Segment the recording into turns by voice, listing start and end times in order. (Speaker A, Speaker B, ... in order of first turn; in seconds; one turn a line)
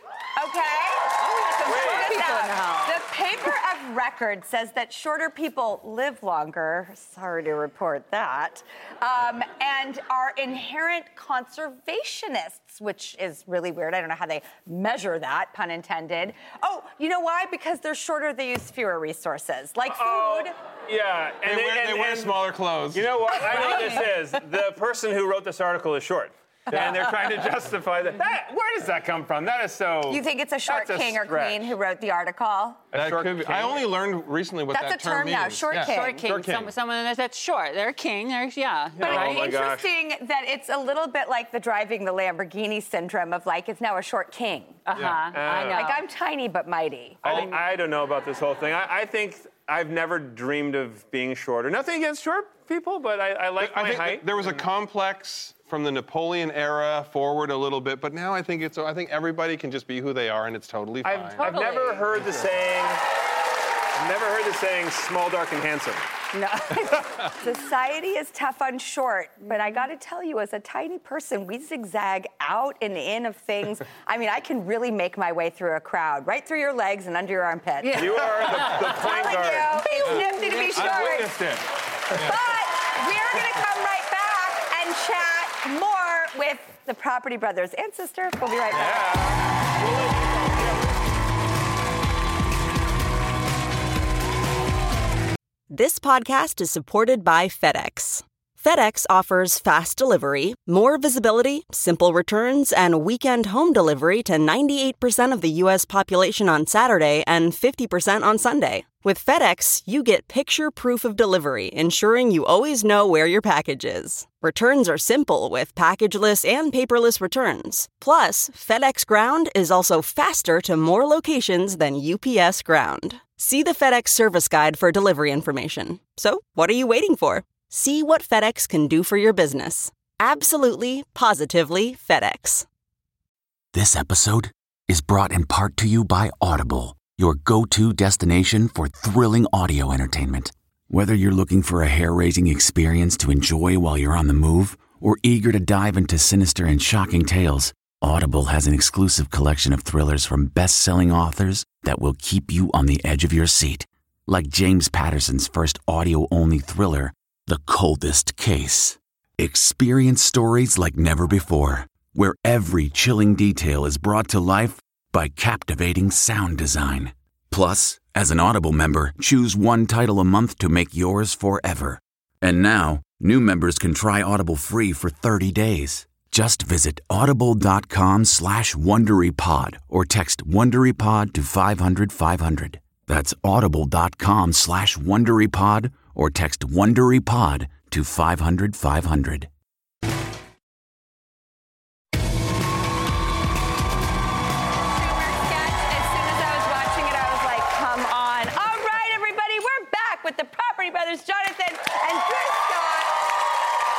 Speaker A: 0.3-20.5
Speaker B: 1.2-3.0
Speaker C: 1.7-2.1
Speaker C: 19.9-31.7
Speaker D: 21.4-24.0
Speaker A: 30.1-32.9
Speaker C: 32.9-33.8
Speaker D: 32.9-36.7
Speaker A: 34.7-36.3
Speaker B: 35.8-39.6
Speaker D: 39.0-39.2
Speaker A: 39.0-44.8
Speaker C: 39.0-39.9
Speaker B: 44.9-46.0
Speaker D: 44.9-45.2
Speaker C: 45.1-45.8
Speaker A: 45.7-47.2
Speaker C: 47.2-54.6
Speaker B: 47.2-47.6
Speaker D: 53.6-62.6
Speaker C: 61.0-63.0
Speaker B: 61.4-62.1
Speaker C: 64.0-66.0
Speaker A: 66.3-78.1
Speaker B: 77.8-81.2
Speaker C: 77.9-79.9
Speaker A: 79.0-81.3
Speaker D: 80.0-82.5
Speaker A: 82.2-89.1
Speaker C: 88.7-90.9
Speaker E: 95.7-132.6
Speaker F: 133.7-189.5
Speaker A: 194.9-203.2